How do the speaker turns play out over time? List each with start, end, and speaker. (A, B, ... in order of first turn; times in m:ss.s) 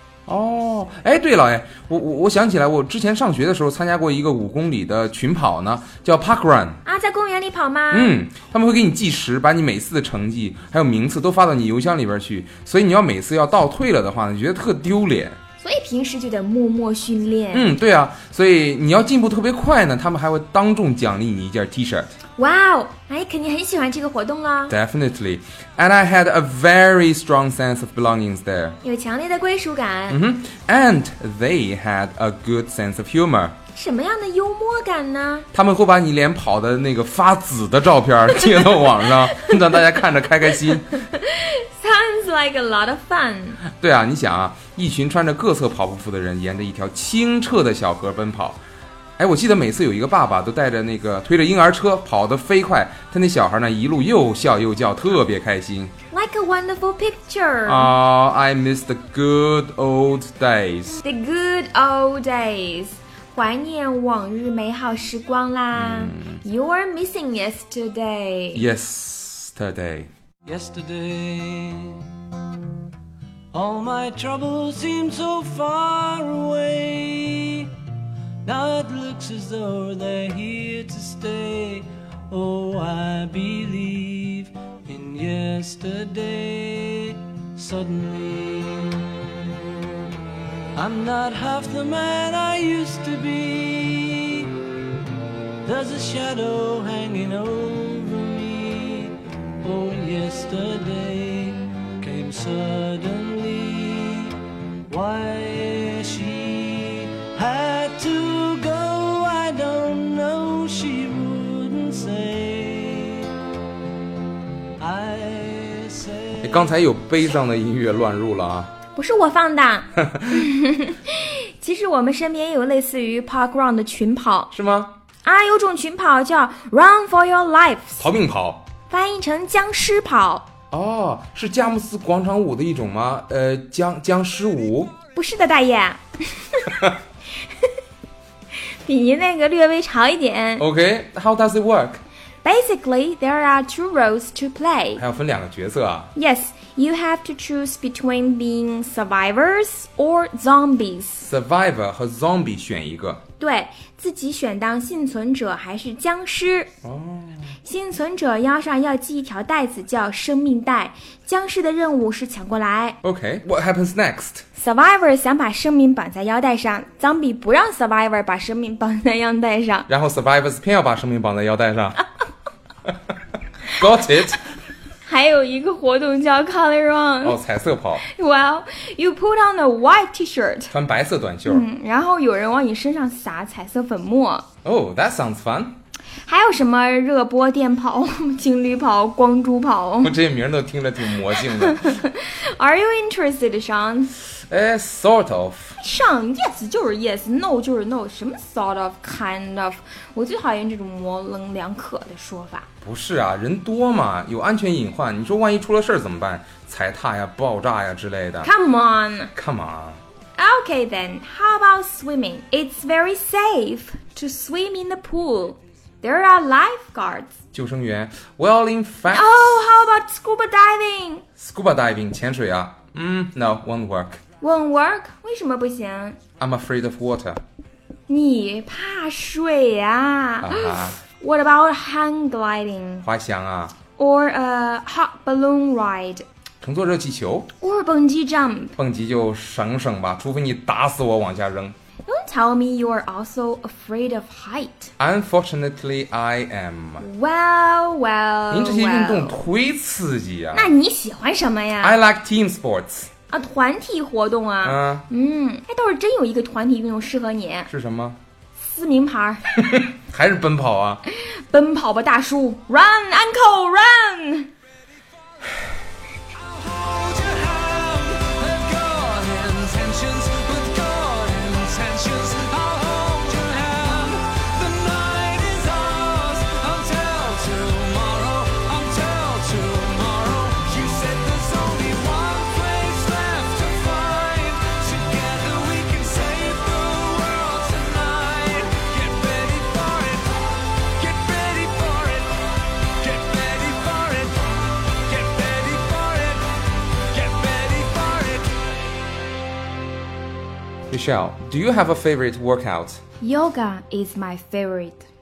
0:00.3-0:06.8 A
0:06.8-0:08.2 B
0:07.9-0:15.4 A
0:15.6-0:17.7 B
0:17.5-0:22.1 A
0:22.4-0:24.7 B
0:24.7-0:28.8 A
0:28.8-0:30.2 B
0:30.1-0:33.5 A
0:33.7-0:35.5 B
0:35.5-0:40.9 A
0:38.3-0:39.6 B
0:40.5-0:43.6 B
0:43.8-0:48.6 A
0:49.2-0:55.9 A
0:56.1-0:57.9 B
0:57.6-1:01.0 A
1:01.0-1:08.6 B
1:05.7-1:06.4 A
1:08.5-1:10.1 A
1:10.4-1:12.1 C
1:13.5-1:17.7 C
1:18.4-1:29.1 C
1:30.8-1:34.6 C
1:35.6-1:53.3 C
1:54.8-1:56.6 C
1:56.4-1:58.7 A
1:58.9-2:04.5 B
2:00.0-2:00.4 A
2:04.5-2:04.9 A
2:05.2-2:08.0 B
2:08.0-2:08.6 A
2:08.9-2:10.5 B
2:10.7-2:14.9 A
2:15.1-2:16.8 B
2:18.6-2:20.6 B
2:20.6-2:22.0 A
2:22.4-2:25.0 B
2:25.0-2:26.1 A
2:26.1-2:31.2 B
2:31.2-2:33.2 A
2:33.4-2:36.7 B
2:36.8-2:37.5 A
2:37.6-2:43.0 B
2:43.0-2:44.4 A
2:44.6-2:49.9 B
2:49.9-2:52.0 A
2:53.7-2:54.4 A
2:55.0-2:57.4 B
2:57.2-2:58.0 A
2:58.0-3:00.7 B
3:00.7-3:01.7 A
3:01.4-3:04.4 B
3:04.6-3:05.8 A
3:06.2-3:10.1 B
3:10.0-3:12.0 A
3:11.3-3:14.1 B
3:14.4-3:15.8 A
3:15.8-3:22.7 B
3:22.8-3:28.5 A
3:28.4-3:29.3 B
3:29.3-3:30.0 A
3:30.4-3:37.3 B
3:37.5-3:39.3 A
3:39.1-3:41.2 B
3:41.4-3:44.2 A
3:44.4-3:46.2 B
3:46.4-3:47.4 A
3:48.1-3:53.0 B
3:50.4-3:51.0 A
3:53.0-3:53.8 A
3:54.0-3:56.2 B
3:56.6-3:57.5 A
3:57.6-3:58.8 B
3:58.8-4:01.7 A
4:02.0-4:04.9 B
4:05.0-4:07.0 A
4:07.0-4:09.4 B
4:08.5-4:10.7 A
4:10.5-4:12.0 B
4:11.8-4:13.1 A
4:13.3-4:17.7 B
4:14.6-4:15.0 A
4:17.7-4:18.2 A
4:18.6-4:19.5 B
4:19.6-4:21.0 A
4:21.1-4:24.5 B
4:26.4-4:54.5 C
4:55.1-4:56.6 C
4:57.1-4:58.6 C
5:00.9-5:03.0 A
5:03.2-5:05.0 B